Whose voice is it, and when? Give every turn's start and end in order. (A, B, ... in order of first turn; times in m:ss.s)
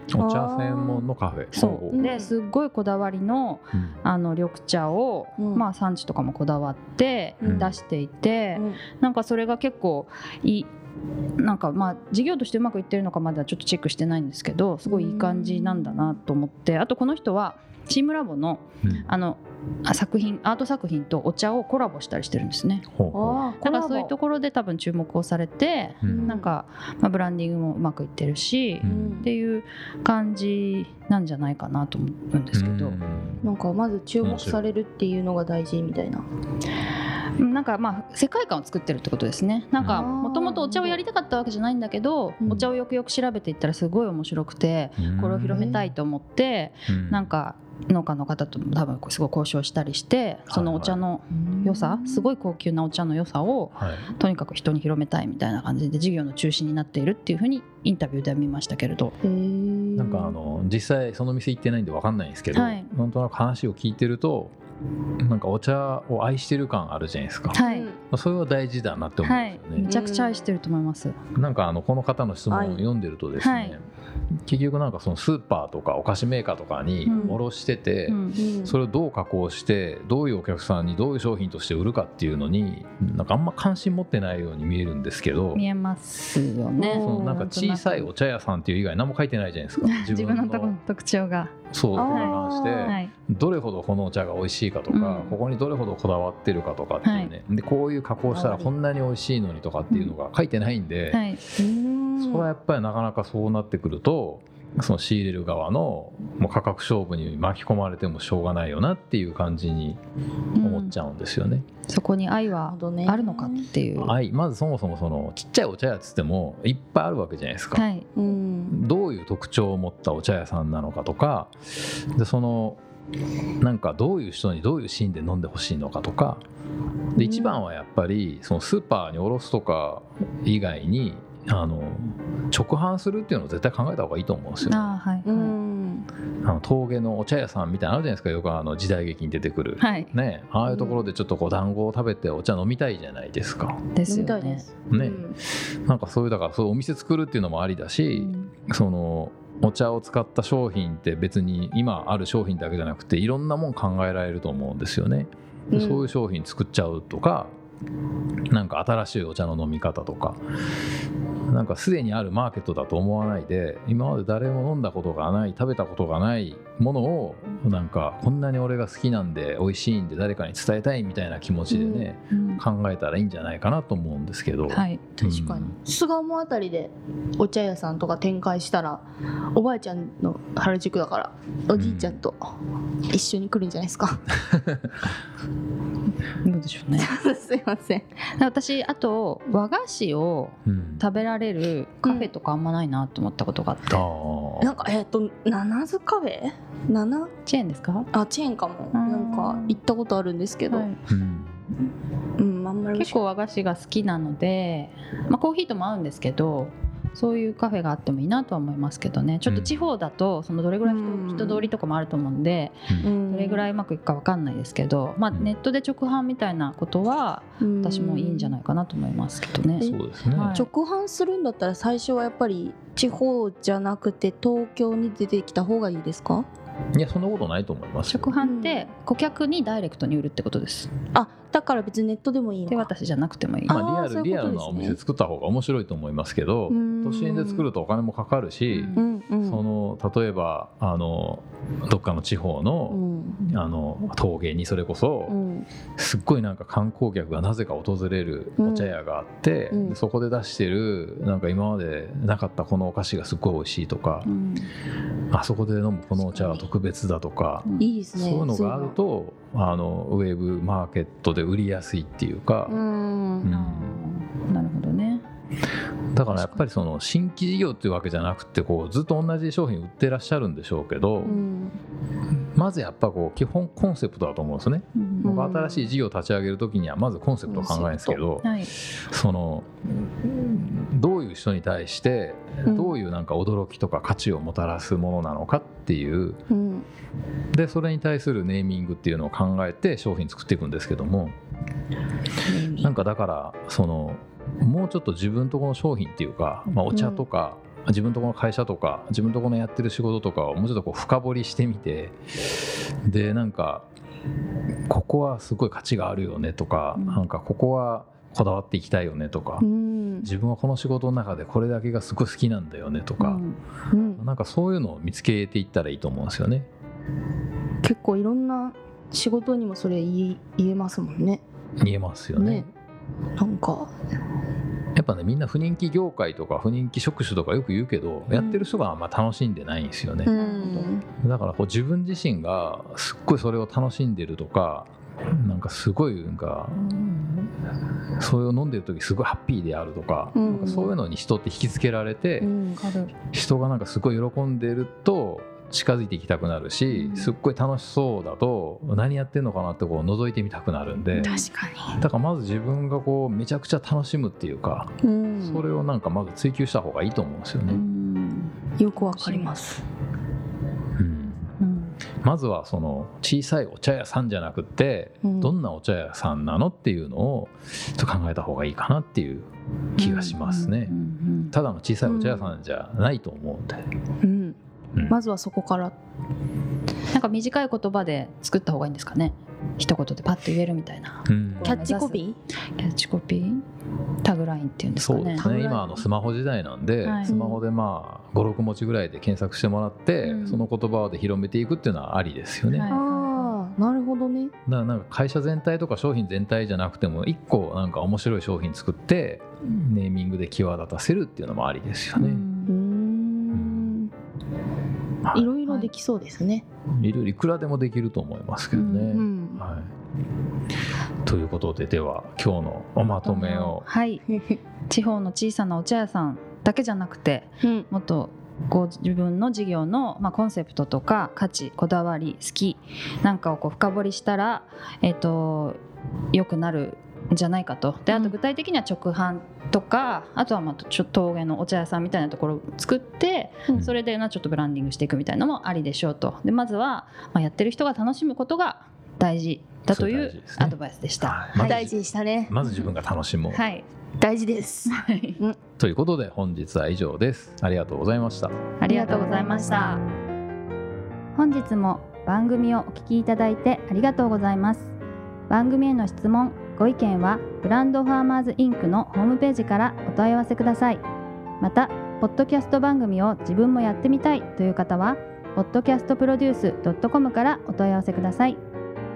0:00.1-0:02.1 A
0:00.2-0:01.1 B
0:01.5-0:10.7 C
0:01.9-0:02.3 B
0:05.4-0:05.7 B
0:07.4-0:07.7 B
0:07.4-0:07.7 A
0:08.6-0:08.8 B
0:11.4-0:22.9 C
0:14.8-0:16.2 B
0:22.9-0:23.4 A
0:23.1-0:24.1 B
0:23.6-0:33.0 C
0:26.0-0:26.4 A
0:26.0-0:26.5 B
0:28.8-0:29.3 A
0:28.8-0:29.3 B
0:32.5-0:33.5 A
0:33.4-0:36.2 B
0:34.2-0:34.6 A
0:37.4-0:59.2 C
0:39.8-0:40.1 A
0:39.9-0:41.0 B
0:45.0-0:45.7 A
0:45.5-0:45.9 B
0:46.9-0:47.3 A
0:50.5-0:51.0 A
0:51.3-0:52.3 B
0:53.7-0:54.1 A
0:59.2-1:00.4 B
1:00.0-1:04.6 A
1:02.5-1:02.9 C
1:05.2-1:07.6 A
1:07.5-1:07.9 C
1:07.6-1:08.0 B
1:08.1-1:09.9 A
1:09.2-1:11.2 C
1:09.9-1:10.4 B
1:11.4-1:13.8 A
1:12.5-1:12.8 B
1:13.4-1:13.8 C
1:14.5-1:25.6 A
1:17.0-1:17.4 C
1:17.1-1:17.4 B
1:18.1-1:18.4 C
1:18.4-1:18.8 B
1:25.5-1:28.1 C
1:26.8-1:27.4 B
1:27.0-1:30.8 A
1:29.8-1:33.1 C
1:31.7-1:41.2 A
1:32.0-1:33.0 B
1:34.9-1:35.4 C
1:37.0-1:37.3 C
1:38.3-1:38.7 B
1:41.1-1:41.4 C
1:41.6-1:42.5 B
1:42.2-1:50.0 A
1:50.6-1:50.9 C
1:50.6-1:51.7 A
1:51.9-1:54.2 C
1:52.7-1:53.7 B
1:54.0-1:57.8 A
1:57.8-1:58.1 C
1:58.2-1:58.8 B
1:58.7-2:02.8 A
2:03.6-2:06.4 A
2:07.2-2:14.9 A
2:07.2-2:07.6 B
2:14.6-2:15.6 C
2:15.2-2:16.1 B
2:16.4-2:23.9 A
2:19.8-2:20.1 C
2:20.7-2:21.0 B
2:24.0-2:24.6 C
2:24.1-2:25.4 B
2:24.9-2:37.6 A
2:28.1-2:28.5 C
2:35.7-2:36.1 B
2:38.5-2:40.4 A
2:41.5-2:55.8 A
2:51.7-2:52.1 B
2:52.3-2:52.6 C
2:54.7-2:55.0 C
2:55.2-3:02.4 B
3:01.8-3:02.2 A
3:03.1-3:04.3 B
3:04.5-3:04.9 A
3:06.4-3:07.1 C
3:07.0-3:08.1 B
3:08.4-3:14.0 C
3:10.7-3:11.1 A
3:12.0-3:12.3 B
3:13.9-3:14.7 A
3:14.6-3:17.3 B
3:17.4-3:18.1 C
3:18.1-3:20.9 B
3:18.9-3:19.8 C
3:20.7-3:21.0 C
3:21.1-3:21.6 A
3:22.4-3:23.2 B
3:23.0-3:40.7 C
3:29.5-3:29.7 A
3:30.8-3:31.7 B
3:33.0-3:33.7 B
3:37.6-3:38.6 B
3:39.8-3:40.6 A
3:40.5-3:46.5 B
3:46.9-3:48.3 A
3:48.1-3:50.9 C
3:48.4-3:48.9 B
3:51.2-3:52.9 B
3:52.7-3:53.8 C
3:53.7-3:55.0 B
3:53.7-4:05.4 A
3:56.7-3:57.7 B
3:58.7-3:59.0 C
3:58.9-3:59.6 B
4:02.9-4:03.4 B
4:05.3-4:05.7 B
4:06.0-4:14.3 A
4:08.6-4:09.0 B
4:09.7-4:10.0 B
4:14.2-4:14.7 C
4:15.3-4:22.8 A
4:16.2-4:16.6 B
4:17.8-4:19.0 B
4:22.7-4:23.5 B
4:23.4-4:24.0 A
4:23.5-4:25.2 C
4:26.1-4:31.4 A
4:26.3-4:26.6 C
4:31.3-4:31.8 B
4:32.6-4:46.4 A
4:35.0-4:35.4 C
4:35.2-4:35.9 B
4:37.5-4:38.2 B
4:38.4-4:38.7 C
4:42.7-4:43.0 B
4:46.5-4:46.9 B
4:47.5-4:51.4 A
4:52.4-4:52.9 B
4:52.8-5:03.9 A
4:56.9-4:57.2 B
5:04.9-5:09.7 A
5:07.0-5:07.2 C
5:09.6-5:10.3 B
5:10.2-5:13.4 A
5:13.2-5:13.6 C
5:13.9-5:14.2 B
5:14.2-5:16.7 A
5:17.8-5:21.4 B
5:21.8-5:22.7 A
5:22.4-5:22.7 B
5:23.4-5:23.9 B
5:25.0-5:30.3 A
5:28.3-5:28.7 B
5:30.2-5:31.1 B
5:30.3-5:30.9 C
5:31.2-5:37.5 A
5:38.2-5:42.5 A
5:40.3-5:41.0 B
5:42.4-5:42.8 B
5:42.8-5:43.1 C
5:43.3-5:51.3 A
5:46.9-5:47.3 C
5:51.2-5:51.5 C
5:51.2-5:52.0 B
5:52.0-5:57.8 A
5:55.0-5:55.6 B
5:57.7-5:59.5 C
5:58.8-5:59.8 B
6:01.0-6:01.5 A
6:01.6-6:02.0 C
6:02.2-6:11.0 A
6:05.2-6:05.6 B
6:10.0-6:11.5 C
6:11.5-6:13.9 A
6:12.0-6:12.6 B
6:14.2-6:14.6 B
6:15.1-6:16.0 B
6:17.1-6:22.2 C
6:21.3-6:21.9 A
6:21.6-6:22.4 B
6:22.8-6:23.6 C
6:24.2-6:25.5 C
6:25.0-6:32.9 A
6:25.4-6:26.0 B
6:27.0-6:27.3 C
6:27.3-6:27.6 B
6:30.2-6:30.6 C
6:32.7-6:33.6 C
6:32.9-6:34.5 B
6:34.7-6:42.4 A
6:42.2-6:42.7 C
6:42.7-6:44.1 B
6:43.5-6:44.0 A
6:45.3-6:46.6 B
6:45.6-6:45.9 C
6:47.0-6:49.9 A
6:48.7-6:49.2 C
6:49.1-6:49.6 B
6:51.3-6:53.8 A
6:53.2-6:54.2 C
6:54.9-7:05.8 C
6:57.6-6:57.9 B
7:06.3-7:21.9 C
7:19.9-7:22.0 A
7:21.6-7:22.9 B
7:22.5-7:23.6 A
7:23.5-7:23.9 C
7:24.2-7:25.6 B
7:24.9-7:25.4 C
7:25.8-7:28.6 A
7:28.8-7:30.0 C
7:28.9-7:29.6 B
7:31.4-7:34.9 C
7:35.5-7:41.0 C
7:41.6-7:48.6 C